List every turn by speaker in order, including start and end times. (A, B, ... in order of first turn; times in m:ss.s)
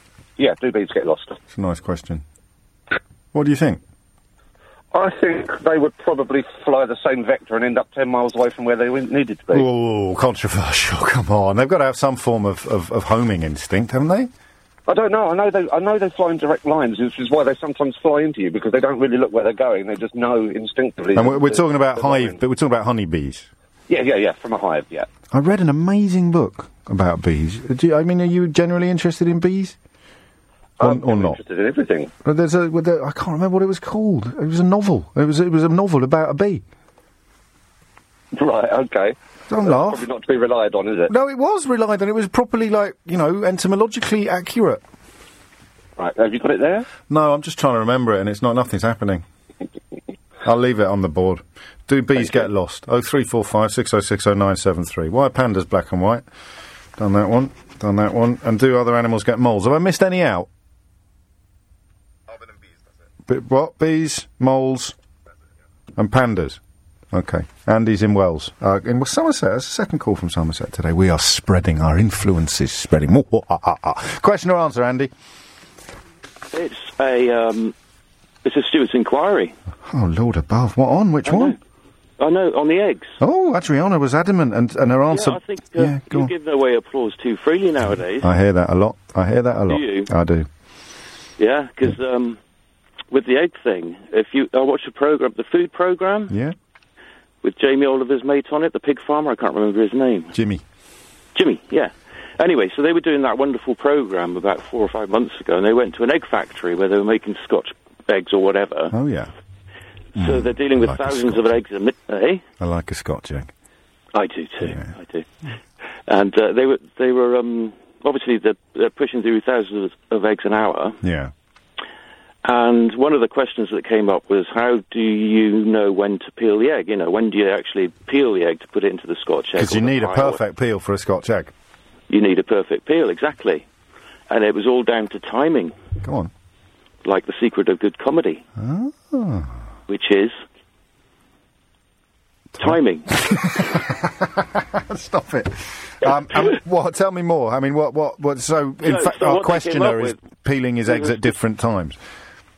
0:00.4-0:01.4 A
0:01.5-0:02.2 B
0:03.3-0:03.8 B
0:04.9-0:09.7 A
0:09.5-0:14.3 B
0:14.9-0:22.4 A
0:21.2-0:23.5 B
0:23.9-0:25.1 A
0:25.3-0:29.8 B
0:30.8-0:31.4 B
0:30.8-0:32.1 A
0:32.2-0:36.6 B
0:38.4-0:41.1 A
0:39.5-0:40.1 B
0:41.1-0:44.8 B
0:46.0-0:46.9 A
0:47.1-0:49.2 B
0:50.4-0:56.2 B
0:57.0-1:00.5 B
1:03.3-1:05.0 B
1:06.0-1:06.6 B
1:07.1-1:15.1 B
1:16.5-1:17.8 C
1:18.4-1:19.5 C
1:19.9-1:21.6 B
1:21.3-1:21.6 C
1:22.2-1:23.2 C
1:23.2-1:26.3 B
1:25.1-1:28.3 C
1:28.2-1:30.5 B
1:29.7-1:30.1 C
1:31.4-1:32.4 C
1:33.1-1:36.3 C
1:36.3-1:36.6 B
1:37.4-1:40.3 C
1:40.3-1:40.6 B
1:41.4-1:48.9 C
1:48.9-1:49.3 B
1:50.2-1:52.4 C
1:50.2-1:51.4 B
1:52.6-1:53.5 B
1:54.2-1:55.3 C
1:54.6-1:54.9 B
1:56.1-2:01.0 C
2:01.0-2:01.3 B
2:02.4-2:10.4 C
2:09.6-2:11.5 B
2:12.1-2:13.6 C
2:14.3-2:15.8 C
2:16.0-2:16.3 B
2:17.0-2:18.4 C
2:18.6-2:19.6 B
2:19.9-2:20.4 C
2:22.6-2:32.0 B
2:22.6-2:23.2 C
2:28.8-2:30.2 C
2:30.9-2:31.3 C